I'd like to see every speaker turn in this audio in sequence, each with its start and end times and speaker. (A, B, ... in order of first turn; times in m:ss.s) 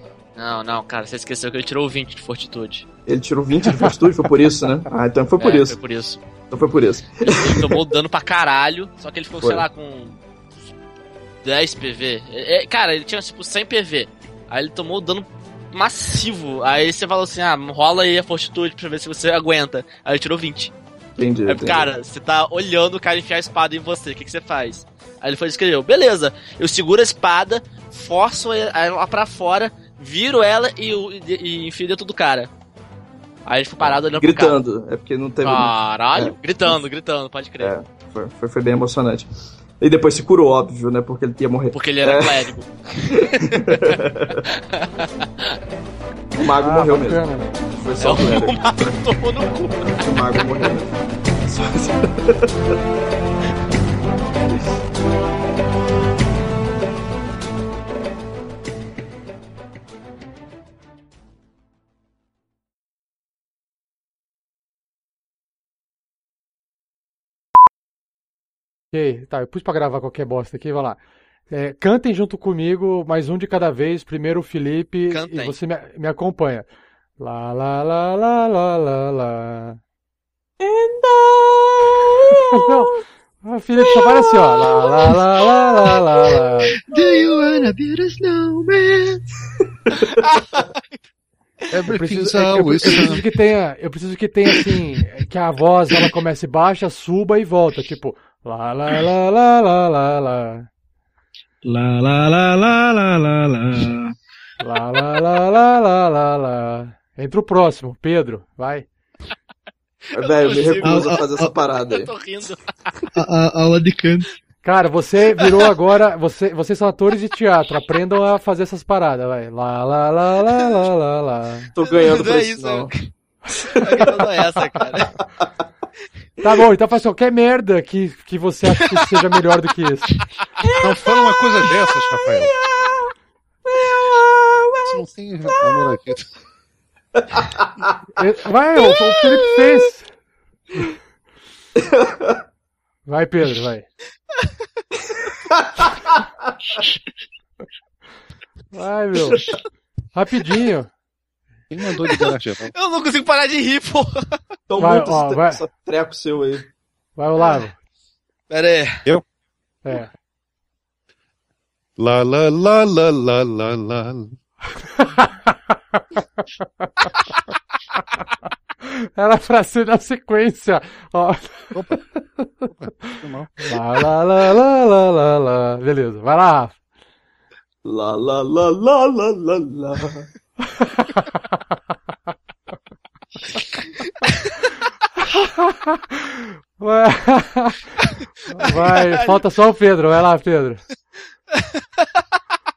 0:00.4-0:02.9 A
0:03.1-0:05.8 B
0:05.4-0:06.2 A
0:06.5-0:07.8 B
0:07.2-0:10.6 A
0:09.4-0:09.7 B
0:11.4-0:20.7 A
0:21.2-0:21.9 B
0:21.5-0:32.5 A
0:33.4-0:34.6 A
0:33.8-0:36.8 B
0:35.4-0:37.7 A
0:37.6-0:39.3 B
0:39.8-0:42.5 B
0:41.7-0:45.6 A
0:43.1-0:44.5 B
0:46.4-0:47.2 B
0:46.6-0:47.6 C
0:47.7-0:49.0 B
0:48.0-0:50.5 A
0:50.0-0:50.9 B
0:51.5-0:52.5 B
1:08.9-1:11.0 C
1:11.5-1:16.7 C
1:15.1-1:15.5 A
1:17.2-1:19.8 C
1:20.6-1:22.6 D
1:22.3-1:26.7 C
1:24.5-1:25.4 D
1:26.7-1:29.4 D
1:30.2-1:30.8 A
1:31.7-1:33.2 E
1:31.9-1:40.7 C
1:41.6-1:44.2 D
1:44.6-1:48.9 C
1:50.1-1:52.1 B
1:50.1-1:53.0 A
1:50.8-1:51.5 D
1:53.1-1:54.3 D
1:54.6-2:01.7 C
2:01.7-2:02.9 B
2:01.9-2:03.1 A
2:03.6-2:05.2 A
2:03.6-2:04.3 B
2:06.4-2:10.2 C
2:10.6-2:11.1 D
2:10.7-2:12.5 E
2:12.3-2:13.0 D
2:13.7-2:14.9 D
2:14.8-2:16.3 E
2:18.2-2:20.1 C
2:21.8-2:22.4 B
2:23.1-2:23.9 C
2:25.5-2:26.2 B
2:28.7-2:29.5 C
2:30.1-2:30.9 C
2:31.7-2:32.7 E
2:32.0-2:34.4 A
2:34.7-2:36.7 B
2:34.8-2:35.6 C
2:37.2-2:37.8 C
2:38.5-2:39.1 A
2:39.8-2:40.1 C
2:42.0-2:44.4 E
2:44.9-2:47.2 C
2:48.8-2:56.8 C
2:51.7-2:52.0 E
2:52.7-2:54.0 E
2:57.8-3:00.3 B
3:00.6-3:01.6 C
3:05.2-3:10.8 C
3:11.6-3:12.2 A